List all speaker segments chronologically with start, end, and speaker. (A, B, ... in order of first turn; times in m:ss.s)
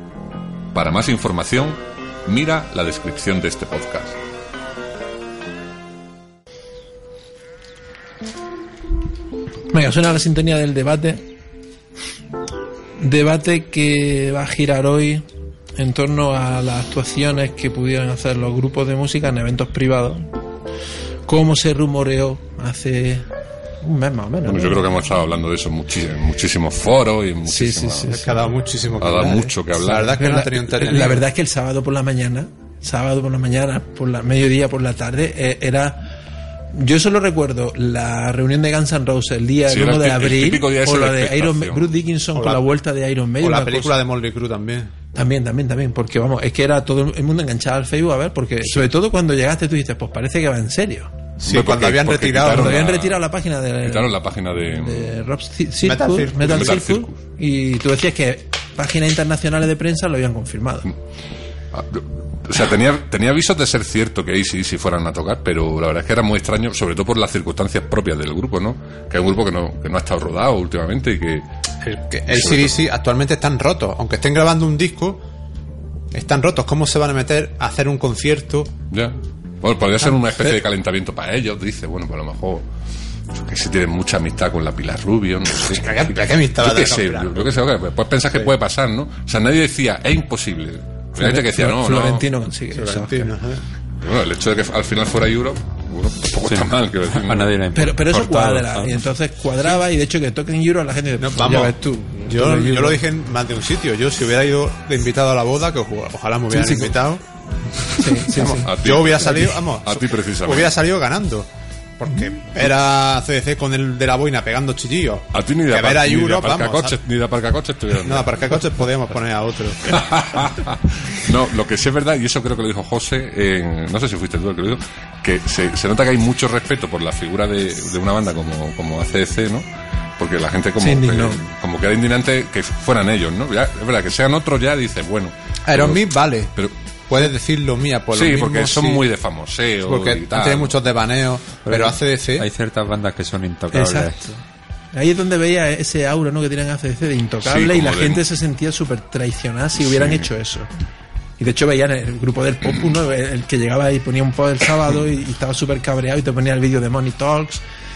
0:00.7-0:04.2 A
0:09.7-0:11.2 B
0:13.0-0:15.2 B
0:15.8-0:20.3 B
0:21.3-0:23.3 B
0:23.8-0:24.9 B
0:24.4-0:28.2 A
0:27.4-0:28.4 B
0:28.1-0:31.3 C
0:29.0-0:30.0 A
0:29.9-0:36.1 B
0:36.7-0:44.0 B
0:39.7-0:41.9 A
0:42.4-0:42.7 C
0:43.4-0:44.9 C
0:45.1-0:51.2 B
0:51.4-0:52.8 C
0:51.4-0:53.2 A
0:52.4-1:00.9 B
0:53.8-0:55.2 A
0:55.8-0:56.8 C
0:56.4-0:57.2 A
1:01.7-1:11.4 A
1:11.8-1:15.2 C
1:12.3-1:12.8 A
1:16.1-1:18.7 C
1:18.9-1:22.7 A
1:23.3-1:26.0 A
1:25.6-1:27.7 C
1:26.6-1:32.3 A
1:31.2-1:33.3 B
1:32.7-1:33.6 C
1:34.0-1:37.5 A
1:36.4-1:39.0 D
1:37.7-1:43.0 B
1:41.2-1:47.2 C
1:46.5-1:46.9 B
1:47.9-1:49.3 B
1:48.0-1:57.0 C
1:48.6-1:50.8 A
1:55.3-1:58.5 A
1:58.0-2:00.0 C
1:59.9-2:09.7 A
2:10.2-2:16.7 A
2:10.8-2:11.4 B
2:15.6-2:16.6 C
2:17.1-2:19.0 C
2:18.1-2:20.8 A
2:19.8-2:22.5 C
2:21.6-2:24.2 D
2:23.7-2:30.7 B
2:27.4-2:28.2 A
2:29.8-2:30.3 A
2:31.4-2:37.6 B